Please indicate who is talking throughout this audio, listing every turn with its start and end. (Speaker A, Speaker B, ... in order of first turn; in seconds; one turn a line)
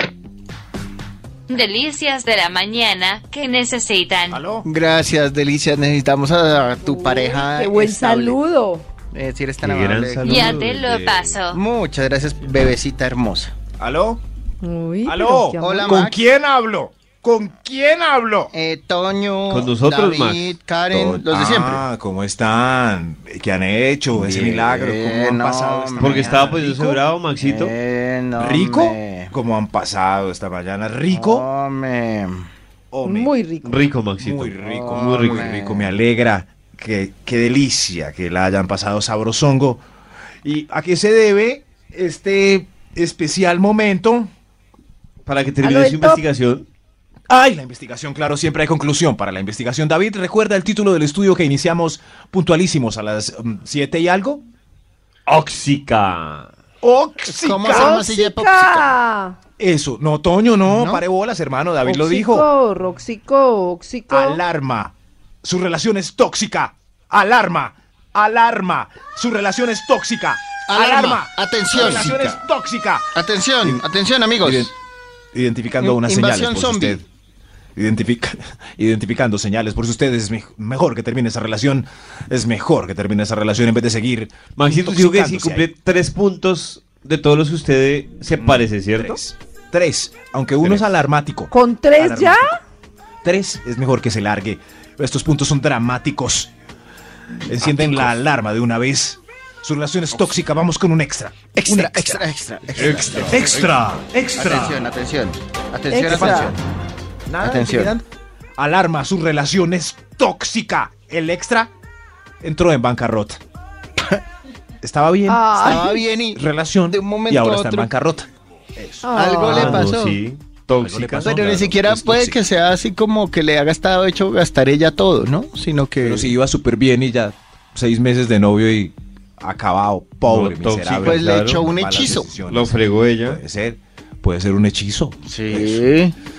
Speaker A: 1.5-4.4
Speaker B: 4.3-4.7
Speaker C: 4.6-8.4
Speaker D: 6.8-8.8
Speaker C: 9.1-10.6
Speaker E: 9.6-11.3
Speaker A: 10.2-11.6
Speaker C: 11.5-13.5
Speaker B: 13.8-14.2
Speaker D: 14.6-16.1
Speaker B: 15.0-18.5
Speaker C: 15.6-16.2
Speaker C: 18.5-21.8
Speaker E: 19.5-20.6
Speaker B: 20.9-27.0
Speaker C: 24.1-26.6
Speaker E: 26.0-27.7
Speaker C: 27.4-29.3
Speaker B: 28.4-31.4
Speaker C: 31.1-32.5
Speaker B: 32.9-33.3
Speaker D: 33.0-33.9
Speaker E: 33.6-35.8
Speaker B: 34.2-39.8
Speaker C: 34.6-35.9
Speaker B: 40.4-44.3
Speaker E: 45.2-46.7
Speaker D: 45.6-46.2
Speaker B: 47.3-54.4
Speaker E: 55.3-56.5
Speaker B: 56.8-58.0
Speaker C: 57.4-58.9
Speaker D: 57.7-59.4
Speaker B: 59.6-62.5
Speaker C: 60.6-61.0
Speaker D: 61.8-64.4
Speaker B: 64.1-73.8
Speaker C: 70.7-72.4
Speaker C: 73.1-74.7
Speaker B: 74.4-74.7
Speaker B: 75.3-77.0
Speaker C: 75.8-77.0
Speaker B: 77.8-85.7
Speaker E: 84.5-89.2
Speaker B: 88.4-92.6
Speaker D: 91.5-92.6
Speaker B: 93.2-96.5
Speaker B: 97.5-104.9
Speaker E: 97.7-98.1
Speaker C: 101.5-103.7
Speaker E: 102.8-103.7
Speaker C: 104.3-106.6
Speaker D: 105.9-106.5
Speaker B: 106.0-106.6
Speaker B: 107.3-108.0
Speaker C: 107.4-107.9
Speaker B: 108.6-111.7
Speaker B: 112.4-113.4
Speaker B: 114.8-119.8
Speaker D: 115.3-116.0
Speaker C: 115.5-117.9
Speaker D: 119.0-119.8
Speaker C: 119.1-120.2
Speaker E: 119.4-121.6
Speaker B: 120.8-122.4
Speaker C: 121.2-126.3
Speaker B: 126.0-135.9
Speaker E: 130.2-133.4
Speaker C: 131.0-132.3
Speaker C: 135.3-136.1